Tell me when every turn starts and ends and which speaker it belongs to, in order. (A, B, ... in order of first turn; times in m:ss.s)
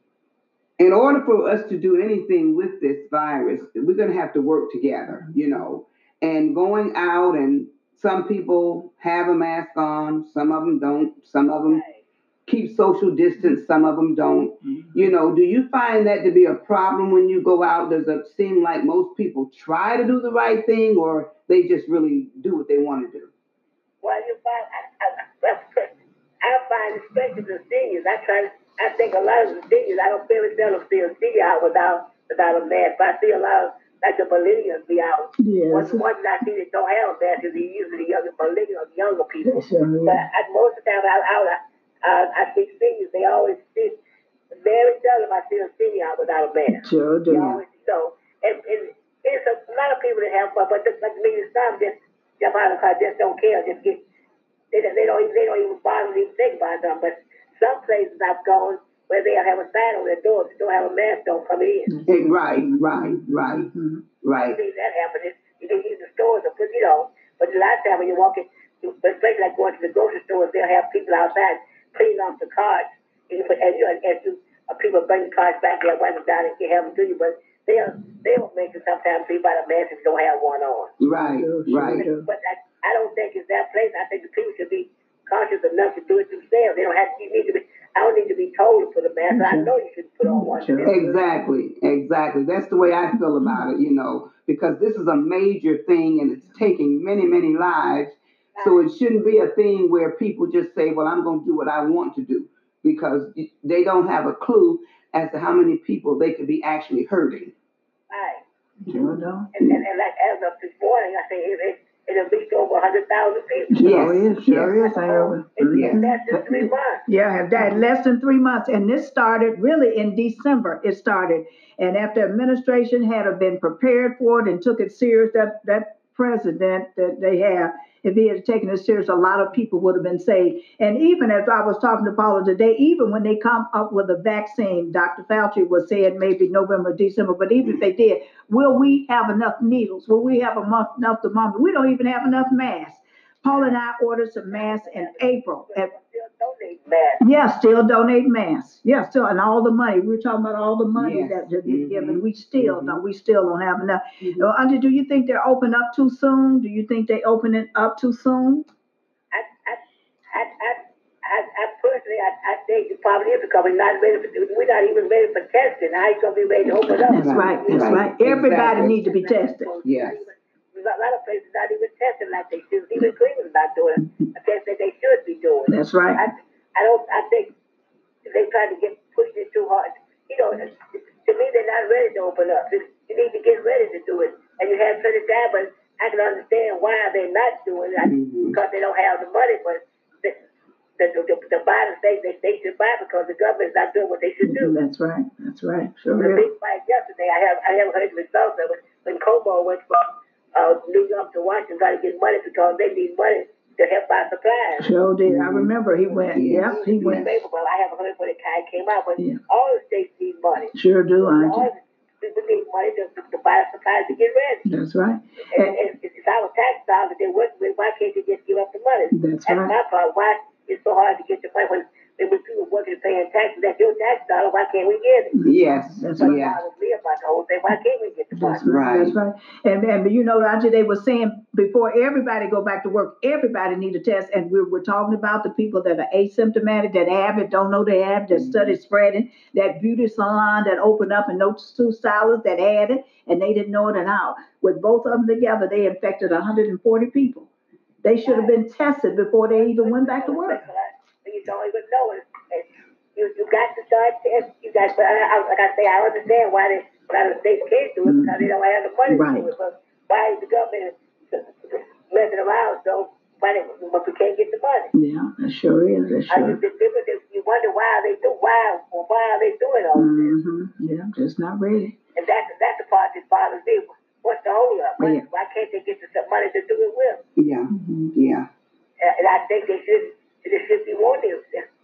0:00.8-0:11.8 A
0:11.6-0:12.0 B
0:12.5-0:23.3 A
0:14.6-0:14.9 C
0:24.0-0:25.9 B
0:26.4-0:44.0 B
0:35.4-0:36.0 C
0:39.4-0:40.2 C
0:44.6-0:54.0 B
0:46.7-0:47.5 C
0:47.3-0:47.6 A
0:54.7-1:01.9 B
1:01.9-1:04.0 C
1:02.1-1:03.7 A
1:04.2-1:04.6 A
1:04.4-1:20.9 B
1:21.0-1:22.0 A
1:21.1-1:22.3 C
1:22.0-1:30.9 B
1:29.3-1:29.7 C
1:30.2-1:31.2 C
1:30.8-1:47.5 A
1:38.6-1:38.9 B
1:48.1-1:48.4 B
1:48.8-1:49.5 C
1:48.9-1:49.7 A
1:49.5-1:57.0 B
1:53.7-2:25.9 C
1:53.8-1:54.8 A
1:55.7-1:56.0 A
2:24.5-2:27.2 B
2:27.2-2:38.6 C
2:30.9-2:33.0 A
2:34.2-2:34.4 A
2:39.3-2:39.8 B
2:40.3-2:57.5 B
2:47.0-2:49.7 C
2:47.2-2:49.0 A
2:49.8-2:50.2 A
2:55.7-2:56.2 C
2:58.2-3:10.4 B
3:08.0-3:08.6 A
3:11.0-3:14.8 B
3:14.4-3:16.4 C
3:16.2-3:24.9 B
3:24.8-3:27.2 C
3:25.2-3:25.7 A
3:26.1-3:34.6 B
3:26.3-3:27.4 A
3:30.7-3:31.7 C
3:34.6-3:35.7 C
3:35.5-3:45.4 B
3:39.1-3:39.7 C
3:45.3-3:46.4 C
3:45.4-3:46.6 A
3:46.2-3:48.6 B
3:48.3-4:07.5 C
3:48.6-3:49.2 A
3:58.3-3:58.8 A
4:08.0-4:10.7 C
4:08.2-4:08.6 B
4:09.5-4:24.9 B
4:18.0-4:18.5 C
4:19.1-4:19.5 C
4:24.9-4:26.6 C
4:26.3-4:30.4 B
4:29.9-4:32.0 C
4:32.2-4:37.2 B
4:37.4-4:38.5 A
4:37.7-4:38.1 C
4:39.0-4:41.6 B